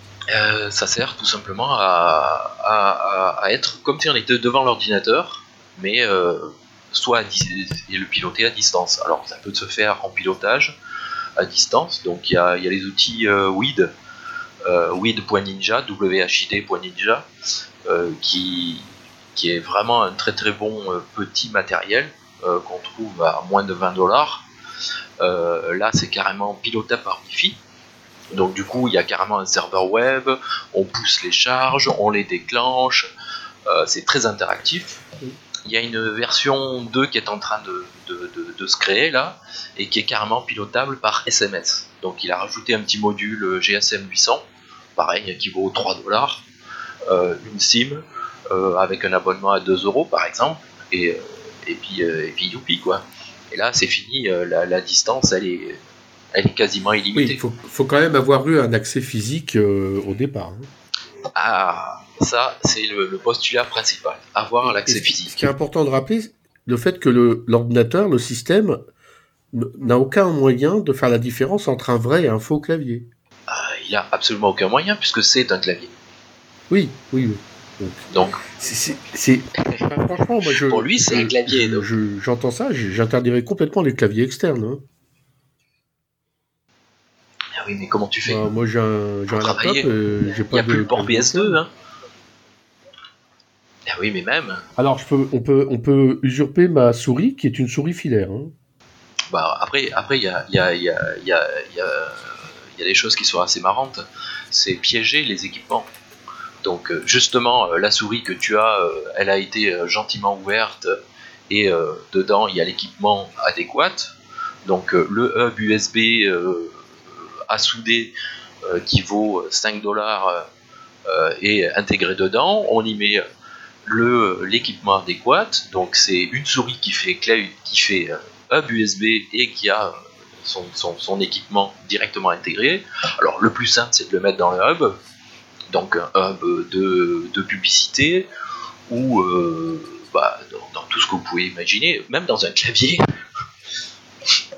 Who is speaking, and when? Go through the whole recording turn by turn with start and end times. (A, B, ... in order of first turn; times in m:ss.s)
0:00.3-0:10.7 A
0:11.4-0:13.9 A
0:14.6-0:17.3 A
0:17.8-0:24.4 A
0:25.2-0:27.6 A
0:28.3-0:33.1 A
0:33.7-0:35.0 A
0:35.6-0:44.4 A
0:45.0-0:46.4 A
0:47.1-0:55.8 A
0:56.3-0:57.4 A
0:57.1-1:00.7 B
1:01.3-1:05.5 A
1:04.6-1:08.8 B
1:09.5-1:13.1 B
1:13.5-1:15.9 A
1:16.7-1:24.8 B
1:18.1-1:18.4 A
1:20.5-1:21.9 A
1:27.6-1:28.4 A
1:28.2-1:31.6 B
1:29.3-1:29.9 A
1:30.5-1:31.7 A
1:33.8-1:34.6 A
1:34.8-1:38.5 B
1:39.3-1:45.9 A
1:46.6-1:50.9 A
1:51.5-1:54.1 A
1:54.6-1:58.1 A
1:58.6-2:00.5 A
2:01.0-2:03.2 A
2:03.8-2:14.9 A
2:15.7-2:18.3 A
2:18.9-2:23.0 A